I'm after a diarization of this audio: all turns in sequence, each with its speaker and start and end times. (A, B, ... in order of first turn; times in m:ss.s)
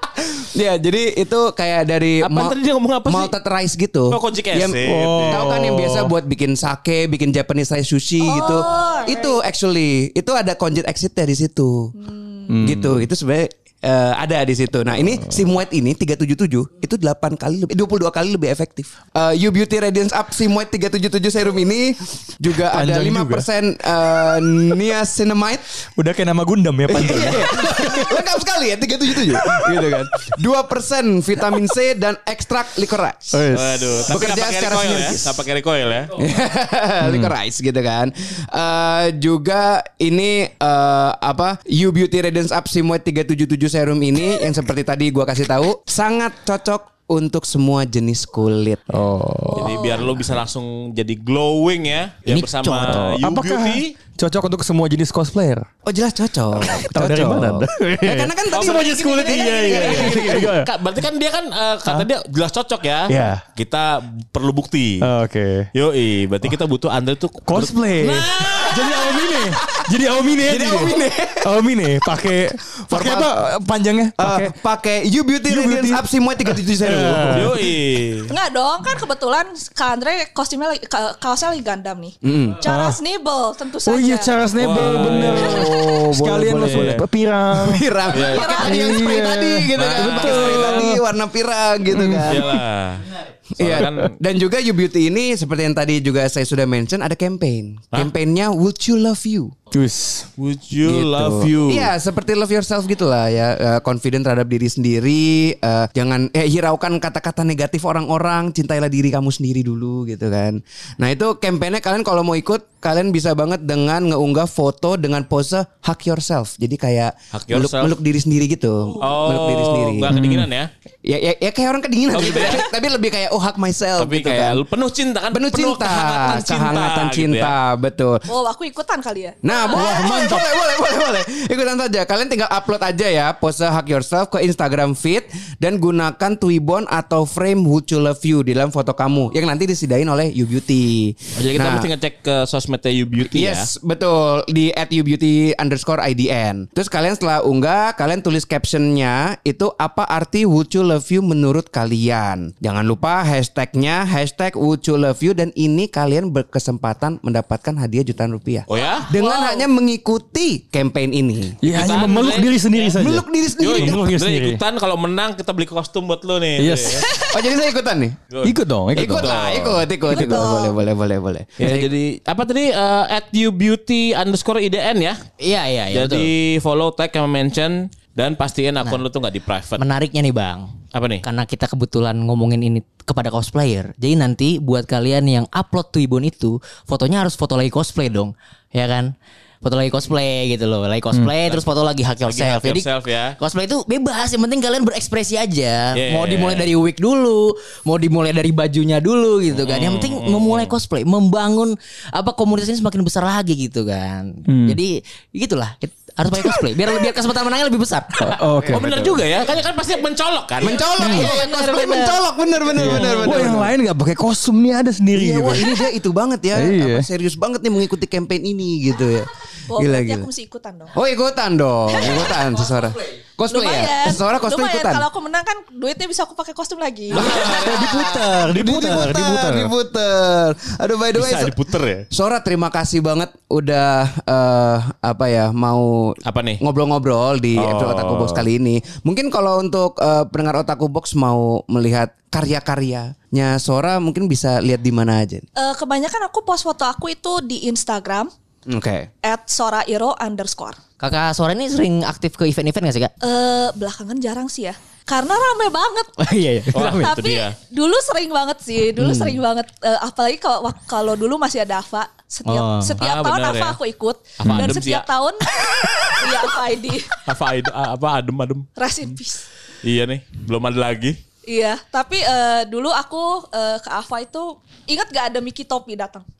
0:00.4-0:11.9 A
0:02.2-0:03.3 B
0:04.1-0:05.4 B
0:04.8-0:06.1 C
0:08.2-0:09.4 D
0:12.0-0:12.6 D
0:12.5-0:13.0 C
0:12.6-0:25.7 A
0:22.7-0:23.4 C
0:26.0-0:28.3 C
0:26.9-0:33.5 A
0:29.2-0:30.0 C
0:33.3-0:34.0 C
0:33.5-0:36.2 B
0:34.1-0:35.4 A
0:36.2-0:49.1 A
0:37.0-0:37.3 C
0:48.9-0:49.7 C
0:49.4-0:50.4 D
0:49.6-0:53.9 B
0:52.2-0:53.0 A
0:52.6-0:55.7 C
0:55.8-1:00.5 A
0:56.6-1:00.7 C
0:58.5-1:05.0 B
1:03.1-1:03.4 C
1:05.0-1:05.7 C
1:05.7-1:09.0 B
1:07.4-1:14.5 C
1:10.4-1:11.5 A
1:12.9-1:13.3 A
1:14.2-1:17.5 A
1:15.5-1:16.0 C
1:16.8-1:17.5 C
1:17.2-1:18.3 B
1:18.3-1:25.8 D
1:22.2-1:22.6 A
1:22.6-1:23.0 C
1:23.8-1:27.9 C
1:24.6-1:25.7 B
1:24.8-1:27.0 A
1:26.6-1:27.0 B
1:27.5-1:32.5 A
1:28.1-1:28.5 B
1:28.3-1:28.8 D
1:28.5-1:31.0 C
1:29.7-1:31.0 B
1:31.9-1:32.6 C
1:32.2-1:34.1 B
1:33.6-1:39.5 A
1:39.7-1:40.3 C
1:40.4-1:41.9 B
1:40.8-2:00.1 A
1:57.3-1:58.0 B
1:59.0-2:00.7 B
2:00.1-2:00.5 C
2:01.0-2:04.6 A
2:02.1-2:02.7 B
2:04.0-2:07.5 B
2:05.3-2:08.3 A
2:08.3-2:10.4 D
2:09.4-2:21.9 A
2:09.9-2:10.4 C
2:21.4-2:23.7 B
2:23.3-2:41.6 A
2:38.7-2:39.1 B
2:38.7-2:39.7 D
2:41.6-2:44.6 C
2:41.6-2:42.9 B
2:42.9-2:44.0 A
2:43.6-2:47.0 B
2:46.6-2:47.1 C
2:47.0-2:47.5 D
2:47.3-2:48.2 A
2:48.3-2:49.8 B
2:48.4-2:50.5 C
2:48.9-2:51.9 A
2:50.1-2:50.8 D
2:51.6-2:55.2 B
2:55.4-2:56.3 E
2:55.9-2:59.8 B
2:59.8-3:29.1 E
3:00.9-3:01.2 B
3:12.2-3:13.4 B
3:15.9-3:16.7 B
3:19.5-3:20.7 B
3:24.5-3:24.8 C
3:28.2-3:28.9 C
3:28.6-3:29.1 A
3:28.7-3:30.8 B
3:30.6-3:33.7 A
3:30.8-3:32.2 D
3:31.0-3:31.8 E
3:31.0-3:31.3 C
3:32.7-3:35.8 C
3:35.1-3:40.3 A
3:36.5-3:37.0 C
3:39.7-3:40.9 D
3:40.9-3:45.1 A
3:41.9-3:42.4 D
3:43.5-3:47.5 D
3:47.1-3:48.3 B
3:47.1-3:51.6 A
3:47.4-3:49.7 C
3:51.1-3:52.0 B
3:52.1-4:05.5 A
3:56.2-3:56.6 B
3:57.5-3:58.4 B
4:05.6-4:08.3 D
4:08.7-4:09.1 A
4:09.2-4:10.8 D
4:11.0-4:13.1 E
4:13.2-4:16.1 D
4:16.2-4:17.2 E
4:16.7-4:17.6 B
4:16.9-4:27.1 D
4:19.0-4:19.4 E
4:22.4-4:23.0 E
4:23.0-4:23.8 B
4:24.4-4:25.1 B
4:25.6-4:26.2 E
4:27.2-4:28.7 B
4:28.8-4:29.4 D
4:29.8-4:31.2 B
4:31.4-4:36.2 D